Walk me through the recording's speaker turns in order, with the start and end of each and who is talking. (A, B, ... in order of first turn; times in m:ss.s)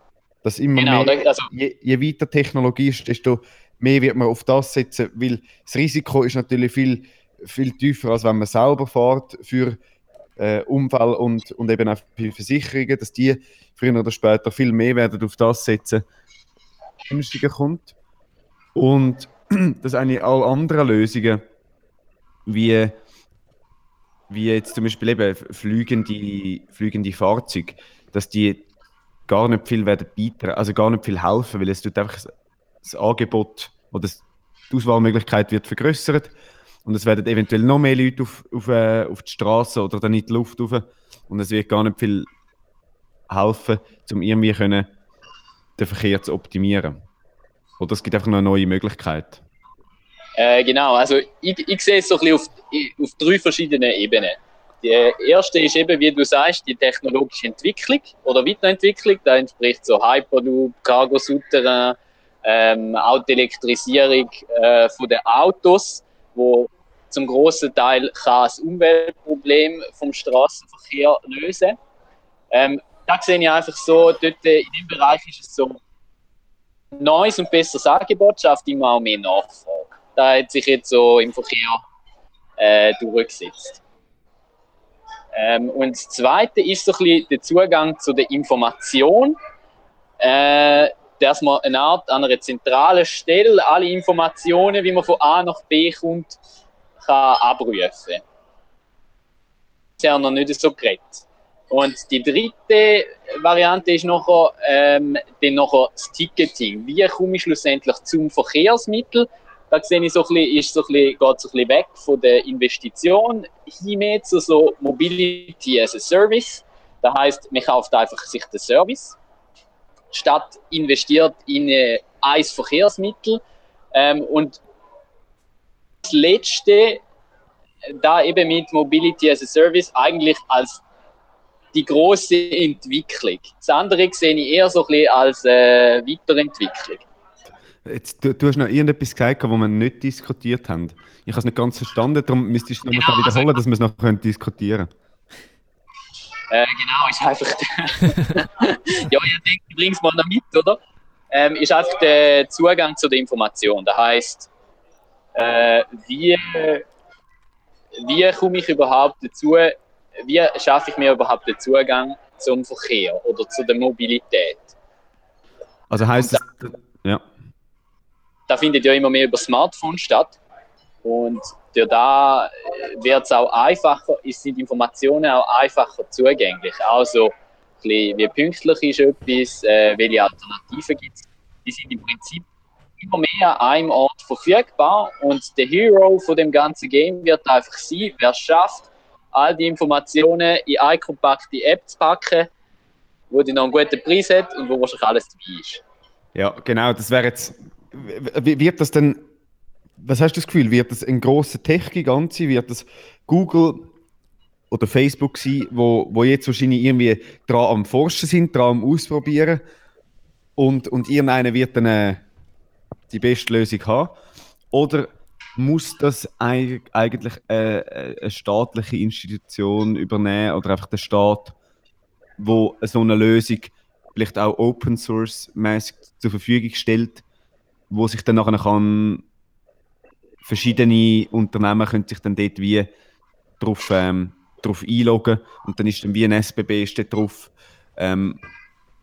0:00.4-0:09.8 A
0:00.8-0:01.5 B
0:10.4-0:16.0 A
0:17.1-0:17.9 A
0:18.7-0:21.4 A
0:22.4-0:23.0 A
0:24.3-0:28.6 A
0:29.3-0:32.3 A
0:32.8-0:36.3 A
0:36.8-0:42.3 A
0:43.3-0:44.9 A
0:45.8-0:47.0 A
0:47.8-0:49.4 A
0:50.4-1:11.8 B
1:12.5-1:15.8 B
1:16.9-1:21.8 B
1:22.6-1:23.8 B
1:25.3-1:29.4 B
1:30.2-1:36.4 B
1:37.0-1:38.2 B
1:40.0-1:59.2 B
2:00.1-2:03.4 B
2:03.9-2:04.6 B
2:06.0-2:07.0 B
2:07.8-2:10.8 B
2:11.7-2:17.0 B
2:17.8-2:24.9 A
2:22.9-2:23.5 B
2:26.5-2:30.8 B
2:31.3-2:34.5 B
2:35.3-2:36.8 B
2:38.0-2:44.7 B
2:45.9-2:47.2 A
2:48.5-2:50.4 B
2:51.0-3:02.4 B
3:03.0-3:12.5 B
3:13.3-3:15.8 B
3:16.4-3:19.2 A
3:20.0-3:23.9 A
3:24.7-3:29.6 A
3:30.6-3:32.2 A
3:33.1-3:34.2 A
3:34.7-3:41.5 A
3:42.4-3:47.2 A
3:47.9-3:49.2 A
3:50.4-3:52.9 A
3:53.6-3:58.4 A